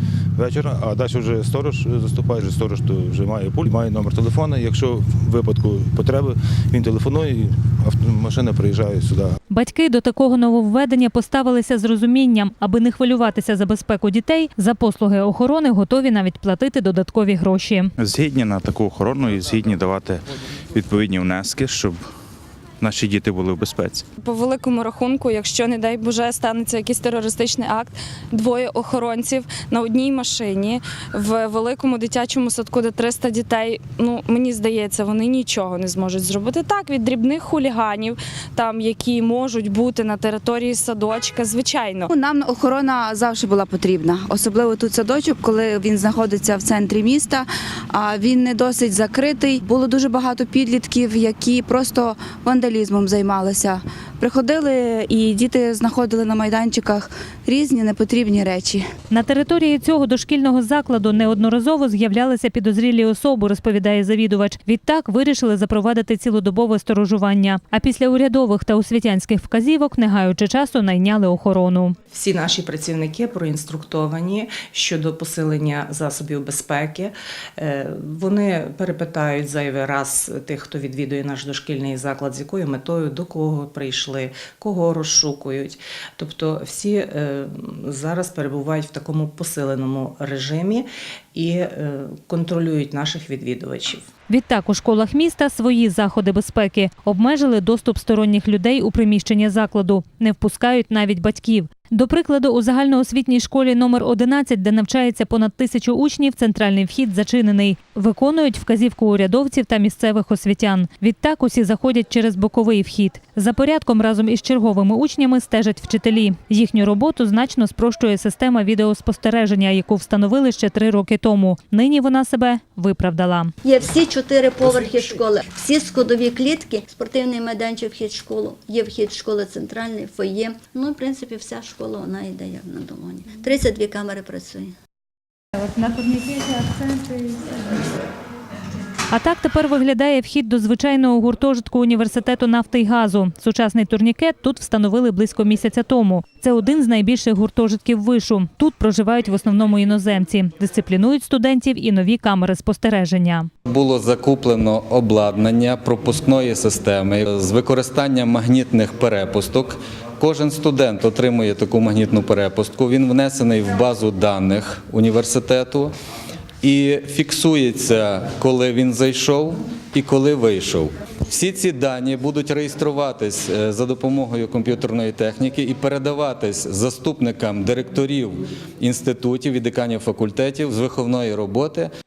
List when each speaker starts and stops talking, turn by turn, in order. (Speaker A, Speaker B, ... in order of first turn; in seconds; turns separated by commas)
Speaker A: 0.3-9.3, Speaker B: 9.5-17.9, Speaker C: 18.0-22.0, Speaker C: 22.8-24.0, Speaker D: 24.3-42.0, Speaker E: 42.1-58.8, Speaker B: 59.1-71.9, Speaker F: 72.1-94.0, Speaker B: 94.3-123.5, Speaker G: 123.6-134.7, Speaker B: 135.6-137.4, Speaker B: 139.1-153.5, Speaker H: 153.7-165.9, Speaker H: 166.6-181.9